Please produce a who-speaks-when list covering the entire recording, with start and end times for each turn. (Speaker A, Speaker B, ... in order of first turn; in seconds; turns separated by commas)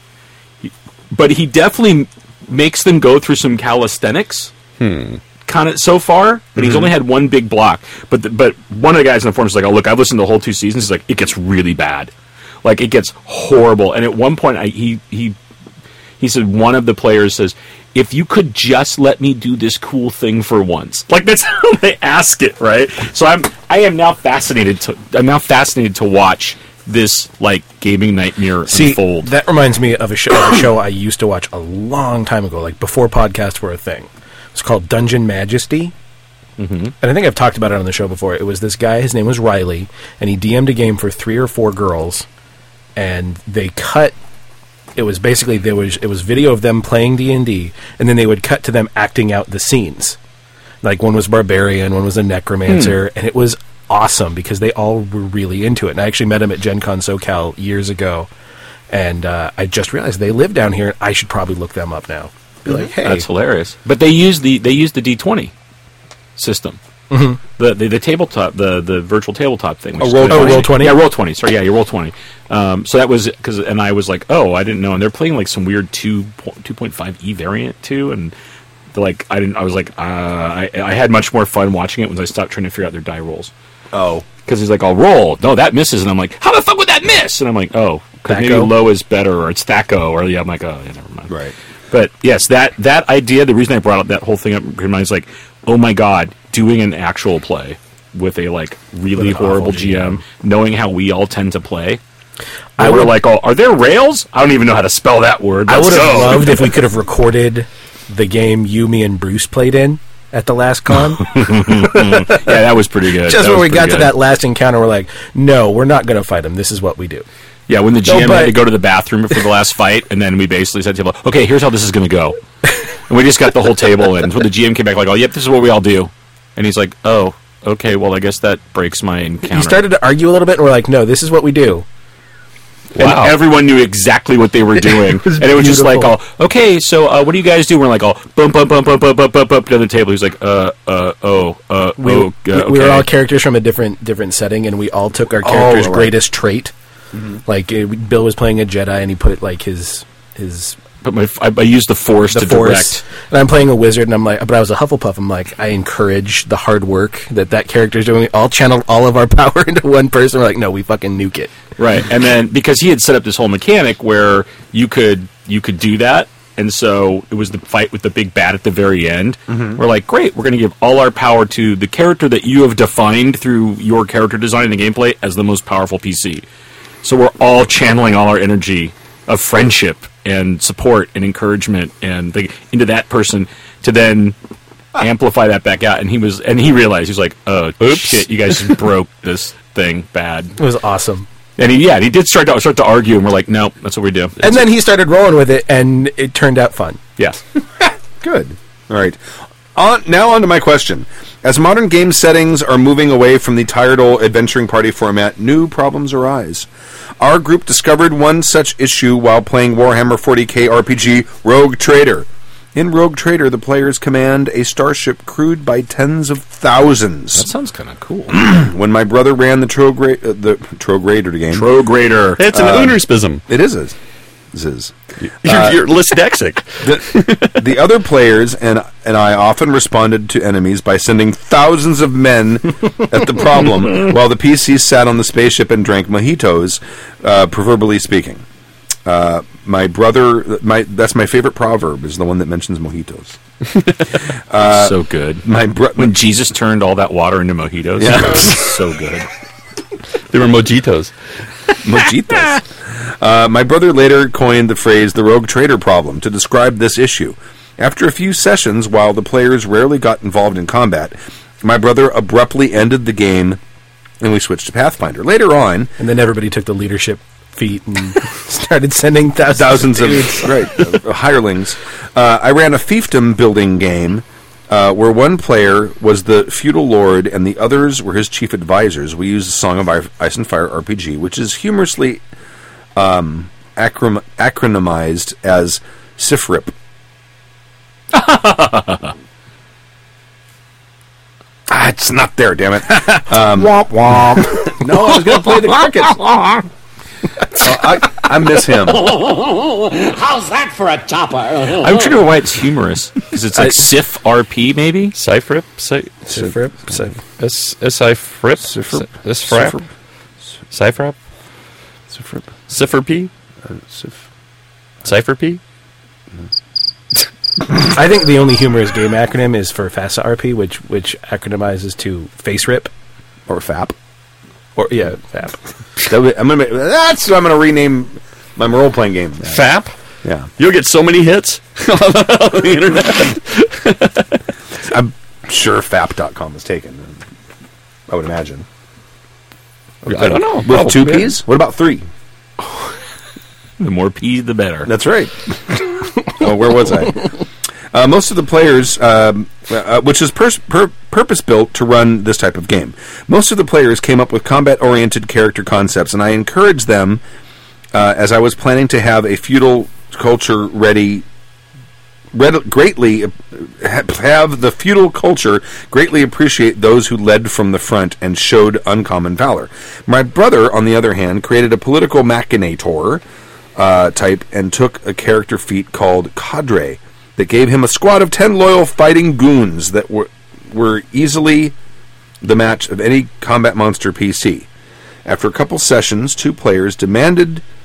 Speaker A: 0.6-4.5, Speaker B: 4.8-5.2, Speaker A: 5.5-12.1, Speaker C: 6.5-6.9, Speaker A: 12.6-15.3, Speaker A: 16.2-29.3, Speaker D: 28.7-35.9, Speaker A: 36.6-36.9, Speaker D: 37.0-42.2, Speaker D: 43.0-44.1, Speaker D: 45.0-50.2, Speaker D: 50.8-58.3, Speaker A: 52.7-52.9, Speaker D: 58.9-63.2, Speaker A: 63.0-65.5, Speaker A: 66.3-66.8, Speaker D: 67.1-67.4, Speaker A: 67.6-78.3, Speaker C: 70.0-70.9, Speaker D: 70.3-71.1, Speaker A: 78.9-83.5, Speaker C: 83.9-84.2, Speaker A: 84.4-91.3, Speaker D: 88.3-88.7, Speaker C: 91.3-91.5, Speaker A: 91.9-102.0, Speaker D: 99.2-100.2, Speaker D: 102.8-103.2, Speaker A: 102.8-106.7, Speaker D: 105.7-112.6, Speaker A: 111.2-114.1, Speaker D: 113.2-117.2, Speaker A: 117.7-122.4, Speaker D: 118.0-118.6, Speaker A: 123.1-129.8, Speaker D: 129.5-131.8, Speaker B: 132.9-133.4, Speaker A: 133.0-143.1, Speaker D: 134.9-136.2, Speaker D: 142.0-146.7, Speaker C: 145.4-146.2, Speaker D: 147.4-150.8, Speaker A: 151.0-153.0, Speaker D: 152.3-161.5, Speaker A: 161.8-176.4, Speaker C: 169.5-169.8, Speaker A: 177.0-184.3, Speaker A: 185.0-190.6, Speaker B: 187.8-188.8, Speaker D: 190.6-191.3, Speaker A: 191.6-194.6, Speaker D: 194.4-197.0, Speaker C: 198.2-199.2, Speaker C: 199.7-206.7, Speaker C: 207.2-217.5, Speaker A: 217.3-218.4, Speaker C: 218.3-221.7, Speaker A: 221.5-222.4, Speaker B: 222.4-223.4, Speaker C: 222.5-223.9, Speaker C: 224.5-225.8, Speaker B: 225.3-227.8, Speaker C: 226.8-238.4, Speaker C: 239.1-243.4, Speaker C: 244.5-246.2, Speaker A: 244.6-245.4, Speaker A: 245.9-249.3, Speaker C: 248.0-248.7, Speaker B: 250.3-251.1, Speaker C: 251.8-263.6, Speaker C: 264.2-265.9, Speaker D: 266.0-270.8, Speaker C: 269.5-282.2, Speaker C: 282.9-286.7, Speaker A: 288.1-289.1, Speaker C: 291.7-296.6, Speaker C: 297.5-299.2, Speaker E: 298.8-302.2, Speaker A: 301.7-305.1, Speaker D: 303.5-303.9, Speaker B: 305.1-306.5, Speaker D: 306.2-307.1, Speaker B: 307.2-309.8, Speaker C: 308.6-309.8, Speaker B: 310.7-311.1, Speaker C: 312.1-312.5, Speaker B: 312.7-313.3, Speaker C: 313.7-314.2, Speaker B: 315.0-315.6, Speaker D: 317.8-322.9, Speaker C: 323.5-323.9, Speaker D: 324.8-325.6, Speaker C: 326.0-329.6, Speaker B: 329.4-329.9, Speaker B: 330.6-334.4, Speaker C: 334.9-337.1, Speaker C: 338.1-338.6, Speaker C: 340.0-342.1, Speaker B: 340.1-341.4, Speaker A: 343.8-344.9, Speaker C: 344.9-347.3, Speaker C: 347.9-357.2, Speaker C: 357.9-361.2, Speaker C: 362.3-373.2, Speaker C: 373.8-381.7, Speaker C: 382.4-384.7, Speaker C: 385.2-387.6